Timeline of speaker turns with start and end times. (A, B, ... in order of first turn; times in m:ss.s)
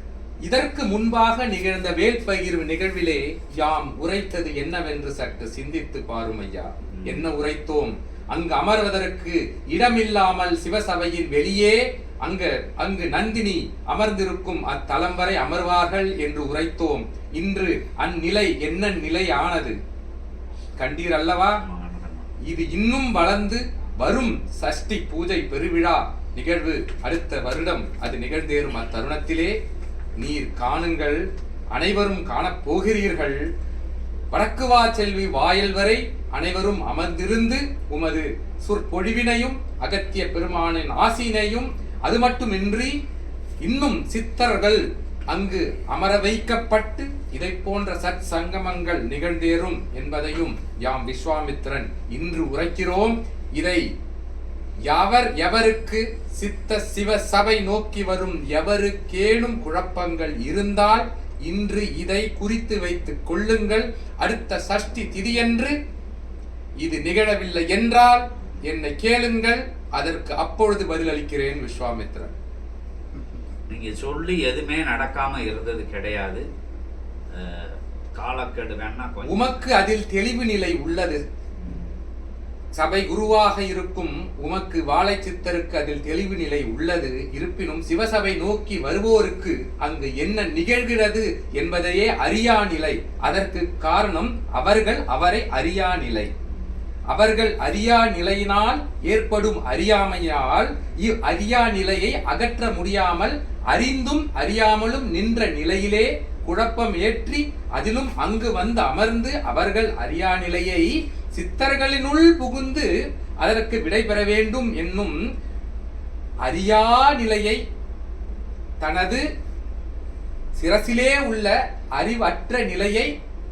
0:00.5-0:19.7 A
0:06.9-0:07.3 B
0:20.8-0:21.6 A
0:21.6-0:22.3 B
0:22.5-0:29.5 A
0:30.2-0:31.2 A
0:31.7-0:33.4 A
0:34.3-0:43.0 A
0:43.6-0:53.8 A
0:54.9-1:05.7 A
1:06.8-1:12.3 A
1:13.7-1:16.4 B
1:17.3-1:19.6 B
1:19.2-1:21.2 A
1:21.6-1:21.9 B
1:22.8-1:36.3 A
1:37.1-1:52.9 A
1:53.4-1:55.2 A
1:56.4-1:57.6 A
1:58.8-1:59.2 A
2:00.6-2:03.1 A